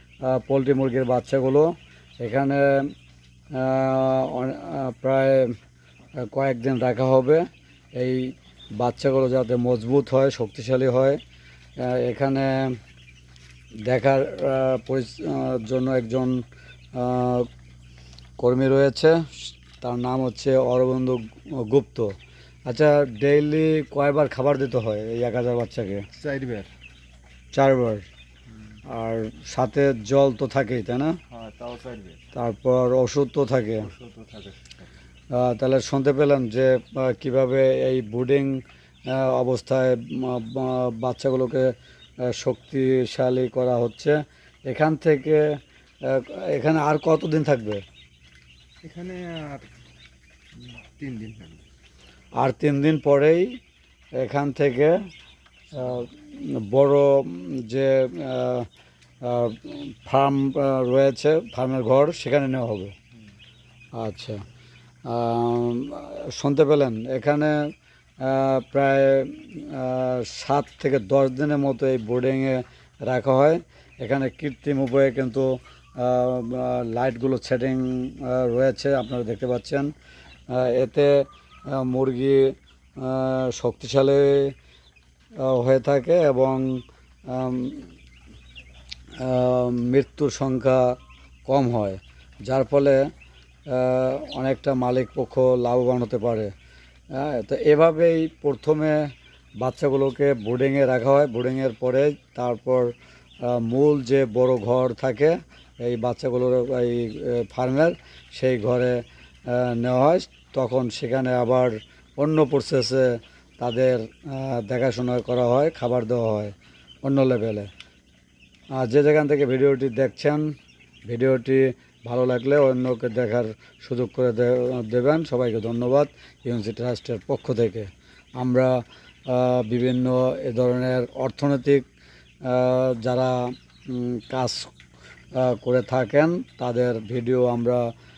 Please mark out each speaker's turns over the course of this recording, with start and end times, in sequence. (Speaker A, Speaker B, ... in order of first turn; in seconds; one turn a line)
Speaker A: 0.3-1.7
Speaker A: 2.2-2.9
Speaker A: 3.5-5.6
Speaker A: 6.3-11.2
Speaker A: 11.8-12.8
Speaker A: 13.9-16.4
Speaker A: 16.9-17.5
Speaker A: 18.4-22.1
Speaker A: 22.7-26.1
Speaker B: 26.1-26.7
Speaker A: 27.5-28.1
Speaker A: 28.9-31.2
Speaker B: 31.3-32.3
Speaker A: 32.3-33.9
Speaker B: 33.8-34.9
Speaker A: 35.3-41.7
Speaker A: 42.3-47.8
Speaker B: 48.8-49.7
Speaker B: 50.6-51.7
Speaker A: 52.4-53.5
Speaker A: 54.2-55.0
Speaker A: 55.7-58.7
Speaker A: 59.2-63.0
Speaker A: 64.0-64.4
Speaker A: 65.1-79.9
Speaker A: 80.5-84.5
Speaker A: 85.4-87.9
Speaker A: 89.2-93.1
Speaker A: 93.7-96.5
Speaker A: 97.1-99.1
Speaker A: 99.6-102.9
Speaker A: 103.4-117.7
Speaker A: 118.7-120.5
Speaker A: 121.1-128.7
Speaker A: 129.3-131.8
Speaker A: 132.4-134.7
Speaker A: 135.3-137.8